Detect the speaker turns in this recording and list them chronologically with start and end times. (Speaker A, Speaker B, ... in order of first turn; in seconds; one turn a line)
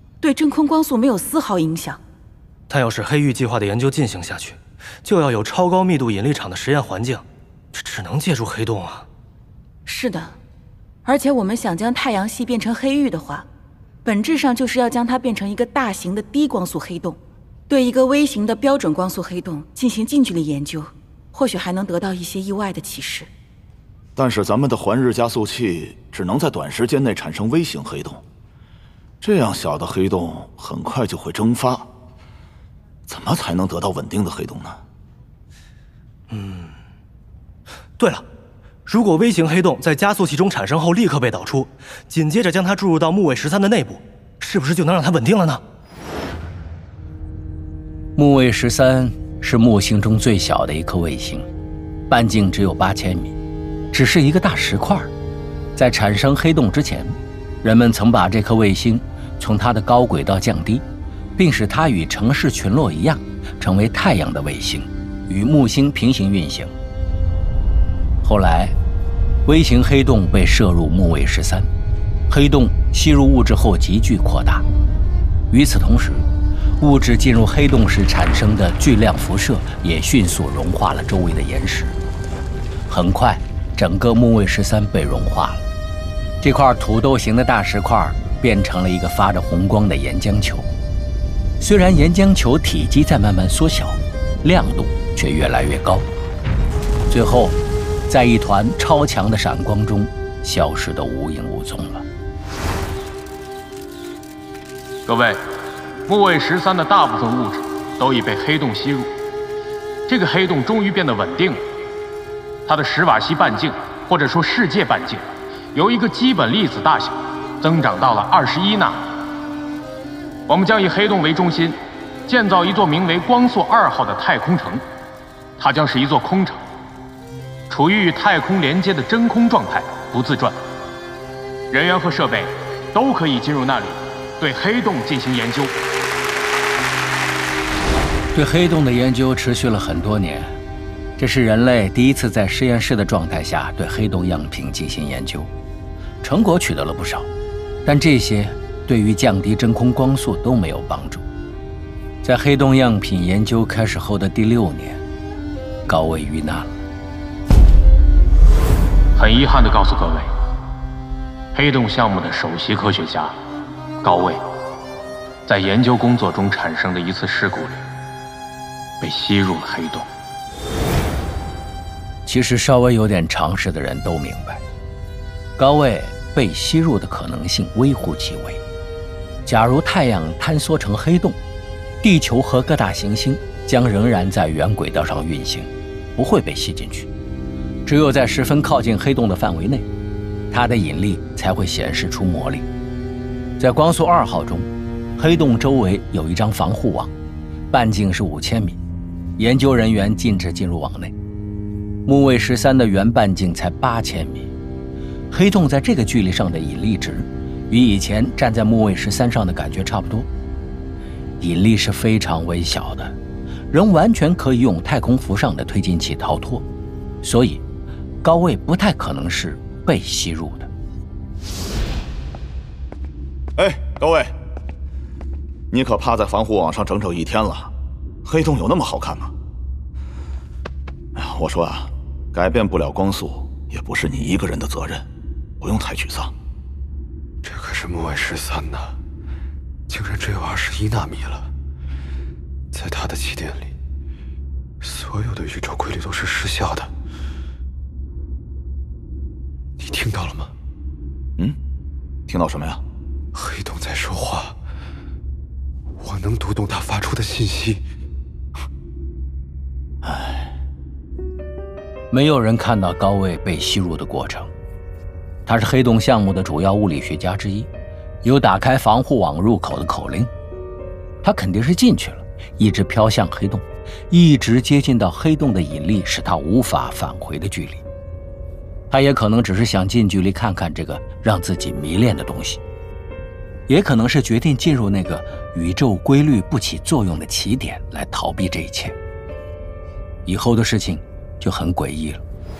Speaker A: 0.2-2.0
Speaker B: 2.7-9.1
Speaker A: 9.8-10.4
Speaker A: 11.0-13.5
Speaker A: 14.0-23.3
Speaker C: 24.1-28.2
Speaker C: 29.2-31.9
Speaker C: 33.1-34.8
Speaker B: 36.3-36.7
Speaker B: 38.0-38.3
Speaker B: 38.9-45.6
Speaker D: 48.1-51.5
Speaker D: 52.1-53.3
Speaker D: 53.9-55.1
Speaker D: 55.8-60.8
Speaker D: 61.4-66.7
Speaker D: 68.2-68.8
Speaker D: 69.5-71.7
Speaker D: 72.3-74.6
Speaker D: 75.5-76.2
Speaker D: 76.8-82.0
Speaker D: 82.9-85.6
Speaker D: 86.4-90.7
Speaker D: 91.6-96.1
Speaker D: 97.1-102.0
Speaker E: 105.0-105.4
Speaker E: 106.1-109.1
Speaker E: 110.1-111.6
Speaker E: 112.7-119.0
Speaker E: 120.5-124.8
Speaker E: 125.6-126.6
Speaker E: 127.7-130.6
Speaker E: 131.7-135.7
Speaker D: 138.3-140.6
Speaker D: 141.2-145.5
Speaker D: 146.2-147.3
Speaker D: 147.8-151.2
Speaker D: 152.2-155.0
Speaker D: 155.9-156.8
Speaker E: 159.2-160.3
Speaker E: 161.5-163.3
Speaker E: 164.0-164.4
Speaker E: 165.4-167.8
Speaker E: 169.0-170.1
Speaker D: 172.2-174.6
Speaker D: 175.6-178.6
Speaker D: 179.4-181.4
Speaker D: 182.0-187.1
Speaker D: 187.8-189.9
Speaker D: 190.5-192.7
Speaker D: 193.6-197.1
Speaker D: 197.7-198.8
Speaker D: 199.4-201.1
Speaker D: 202.1-204.5
Speaker D: 205.3-210.3
Speaker D: 211.4-213.2
Speaker D: 213.7-216.6
Speaker D: 217.2-217.6
Speaker D: 218.2-220.7
Speaker C: 223.6-224.3
Speaker C: 225.7-227.7
Speaker C: 228.2-229.3
Speaker C: 231.1-235.1
Speaker C: 235.6-236.3
Speaker F: 237.4-239.0
Speaker F: 239.9-241.5
Speaker F: 242.7-243.7
Speaker F: 244.8-246.9
Speaker F: 249.8-250.5
Speaker C: 252.3-252.8
Speaker F: 253.3-254.6
Speaker F: 256.0-257.9
Speaker D: 262.1-264.5
Speaker D: 265.4-267.7
Speaker D: 268.2-270.3
Speaker D: 271.2-277.8
Speaker D: 278.9-282.6
Speaker D: 283.7-288.9
Speaker D: 290.2-292.2